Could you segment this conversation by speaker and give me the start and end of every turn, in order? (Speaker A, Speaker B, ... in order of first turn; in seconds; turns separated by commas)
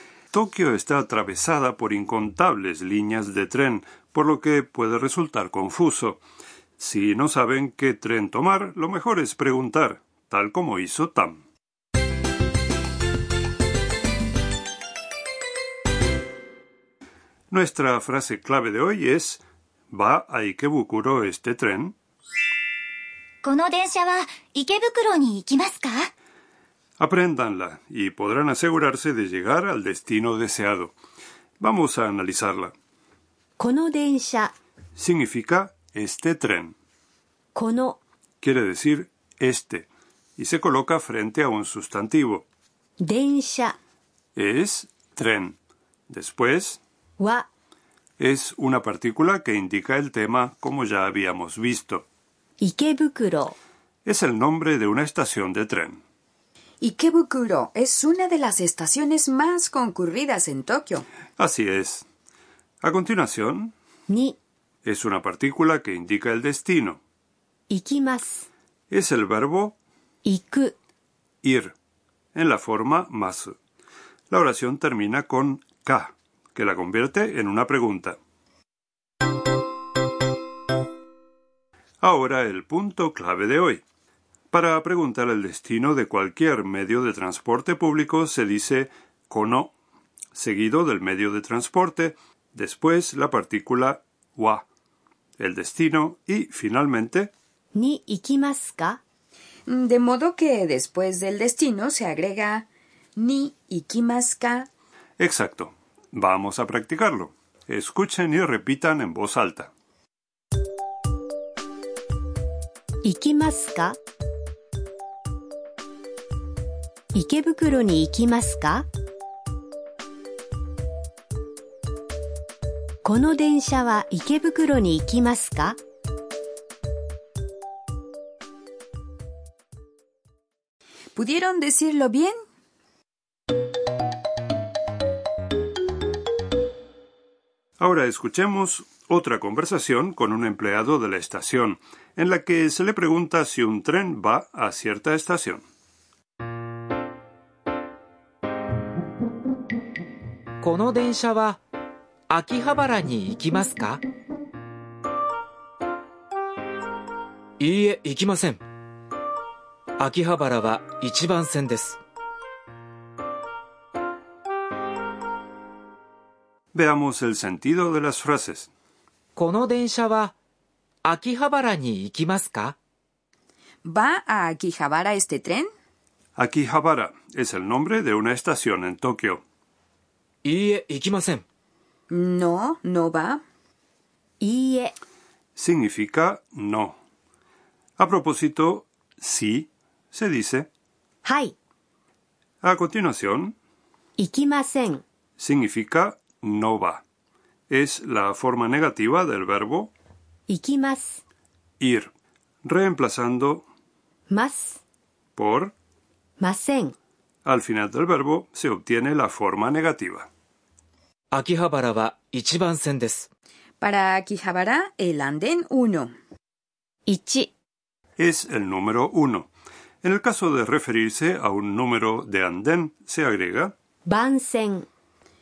Speaker A: 0.3-6.2, Speaker A: 6.8-11.4, Speaker A: 17.5-21.9, Speaker B: 23.4-26.1, Speaker A: 27.0-30.9, Speaker A: 31.6-32.7, Speaker C: 33.6-34.5, Speaker A: 35.0-36.8, Speaker C: 37.5-38.0, Speaker A: 38.4-42.5, Speaker C: 43.0-43.8, Speaker A: 44.4-45.6, Speaker A: 46.1-46.8, Speaker C: 47.2-47.5, Speaker A: 48.2-52.0, Speaker C: 52.6-53.5, Speaker A: 54.0-56.0, Speaker D: 56.8-61.0, Speaker A: 61.4-62.0, Speaker A: 62.8-63.7, Speaker C: 64.1-64.4, Speaker A: 64.8-67.0, Speaker C: 67.7-68.5, Speaker A: 68.9-69.8, Speaker C: 70.2-70.7, Speaker A: 71.4-71.7, Speaker A: 72.3-73.6, Speaker A: 74.3-78.2, Speaker A: 82.0-83.8, Speaker A: 84.5-89.7, Speaker A: 90.3-94.6, Speaker A: 95.4-97.3, Speaker C: 97.7-99.0, Speaker D: 99.7-104.7, Speaker A: 105.2-109.7, Speaker C: 113.0-114.0, Speaker C: 117.1-118.9, Speaker C: 123.0-125.8, Speaker D: 131.1-132.3, Speaker A: 137.8-145.6, Speaker E: 150.6-151.6, Speaker E: 152.3-154.0, Speaker E: 157.6-158.6, Speaker E: 160.0-162.0, Speaker A: 166.7-168.7, Speaker E: 169.3-170.3, Speaker E: 171.0-172.7, Speaker D: 173.8-175.7, Speaker A: 176.3-179.4, Speaker E: 180.4-181.4, Speaker D: 182.1-183.4, Speaker C: 184.4-184.9, Speaker A: 185.6-187.0, Speaker A: 188.0-190.7, Speaker C: 191.2-191.5, Speaker A: 192.6-193.6, Speaker C: 194.2-195.0, Speaker A: 195.4-197.0, Speaker A: 197.7-199.9, Speaker C: 200.5-201.2, Speaker A: 201.8-202.1, Speaker A: 202.6-203.6, Speaker C: 204.3-204.8, Speaker A: 205.3-205.7, Speaker C: 206.4-206.9, Speaker A: 207.4-210.3, Speaker E: 211.3-213.3, Speaker D: 213.8-216.1, Speaker C: 217.1-217.5, Speaker A: 218.2-219.5, Speaker A: 220.0-223.7, Speaker C: 224.1-224.9